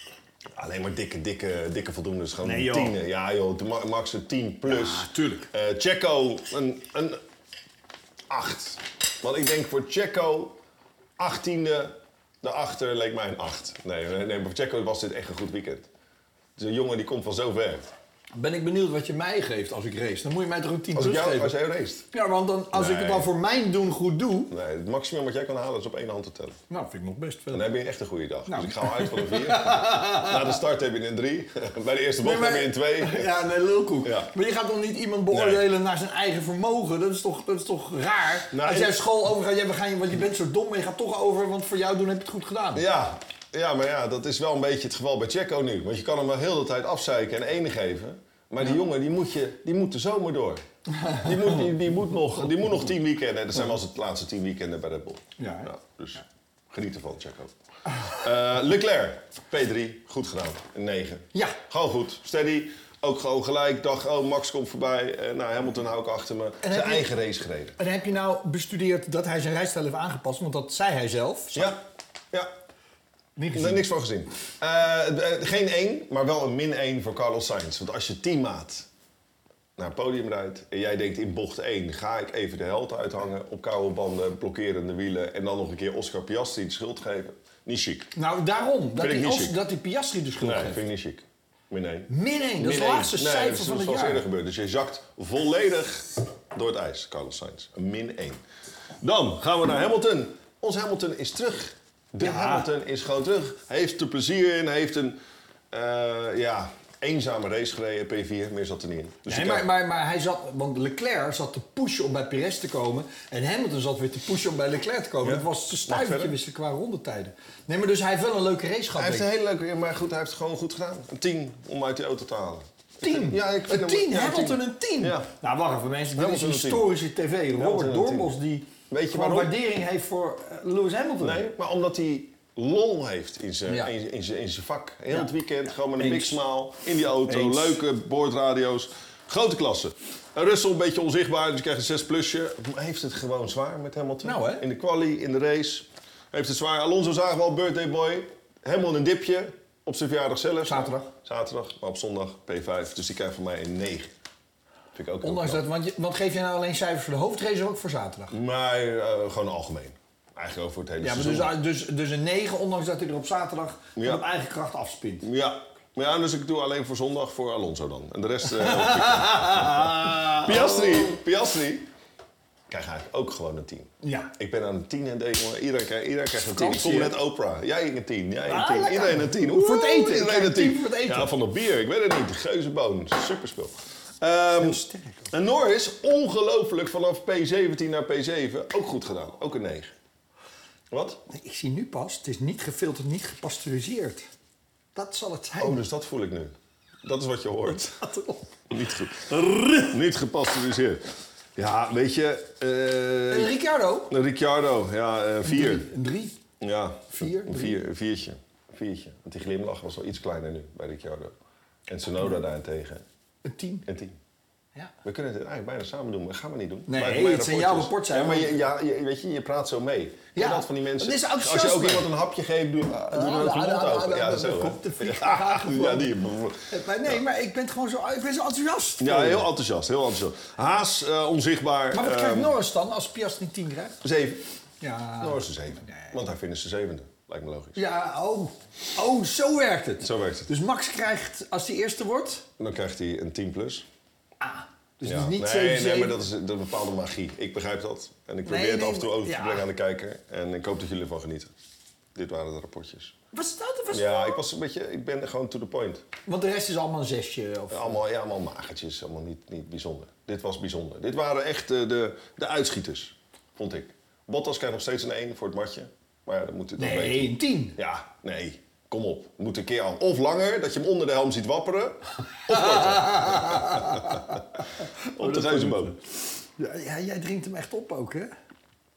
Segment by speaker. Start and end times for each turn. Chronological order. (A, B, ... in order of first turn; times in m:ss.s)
0:00.5-0:07.2 A
0:02.4-0:03.0 B
0:04.6-0:05.5 B
0:08.3-0:10.6 A
0:11.2-0:15.9 A
0:16.6-0:17.8 A
0:18.3-0:21.6 B
0:20.9-0:22.1 A
0:22.1-0:24.5 B
0:22.7-0:23.3 A
0:24.5-0:26.6 A
0:26.7-0:27.7 B
0:27.5-0:33.3 A
0:28.5-0:30.6 B
0:32.2-0:42.8 B
0:34.0-0:34.3 A
0:35.3-0:35.6 A
0:38.5-0:39.0 A
0:42.7-0:57.5 A
0:50.9-0:51.7 B
0:55.4-0:55.7 B
0:58.1-1:07.8 A
1:06.6-1:07.1 B
1:07.8-1:11.7 B
1:11.5-1:11.8 A
1:13.4-1:13.8 B
1:13.5-1:18.9 A
1:19.8-1:28.1 A
1:28.1-1:30.8 B
1:29.0-1:29.6 A
1:30.4-1:38.4 A
1:32.1-1:34.2 B
1:39.0-1:45.2 A
1:42.2-1:42.7 B
1:45.7-1:49.7 A
1:49.2-1:59.3 B
1:55.2-1:56.4 A
1:58.9-2:05.3 A
2:03.0-2:11.5 B
2:06.1-2:06.9 A
2:07.5-2:08.3 A
2:08.9-2:09.5 A
2:11.2-2:34.1 A
2:13.7-2:13.9 B
2:16.0-2:16.4 B
2:17.2-2:17.8 B
2:24.2-2:24.6 B
2:30.6-2:31.1 B
2:34.9-2:35.6 A
2:35.2-2:38.3 B
2:38.3-2:41.5 A
2:41.0-2:45.2 B
2:44.0-2:44.2 A
2:45.2-2:51.9 A
2:48.4-2:51.2 B
2:52.7-3:09.9 A
2:54.0-2:54.3 B
2:56.4-2:57.2 B
2:58.5-3:01.3 B
3:04.6-3:05.3 B
3:10.9-3:11.2 A
3:11.3-3:14.2 B
3:14.9-3:15.8 B
3:15.6-3:18.0 A
3:17.7-3:18.5 B
3:18.7-3:21.0 A
3:21.6-3:23.5 A
3:23.3-3:24.1 B
3:24.1-3:25.9 A
3:25.4-3:26.3 B
3:26.6-3:31.4 A
3:27.1-3:27.8 B
3:31.9-3:33.0 A
3:33.4-3:33.8 B
3:33.8-3:34.2 A
3:35.0-3:47.2 A
3:36.9-3:38.6 B
3:40.3-3:42.1 B
3:43.1-3:46.1 B
3:46.7-3:49.5 B
3:49.0-3:52.6 A
3:51.9-3:54.0 B
3:54.0-3:54.4 A
3:54.8-3:56.1 B
3:55.2-3:57.8 A
3:57.7-4:02.4 B
4:00.0-4:00.5 A
4:02.6-4:03.9 A
4:04.4-4:06.2 B
4:05.0-4:11.5 A
4:08.4-4:09.6 B
4:12.1-4:13.2 A
4:13.3-4:14.4 B
4:13.9-4:16.0 A
4:16.2-4:18.0 B
4:17.7-4:34.6 A
4:26.8-4:27.8 B
4:32.5-4:38.3 B
4:35.1-4:36.0 A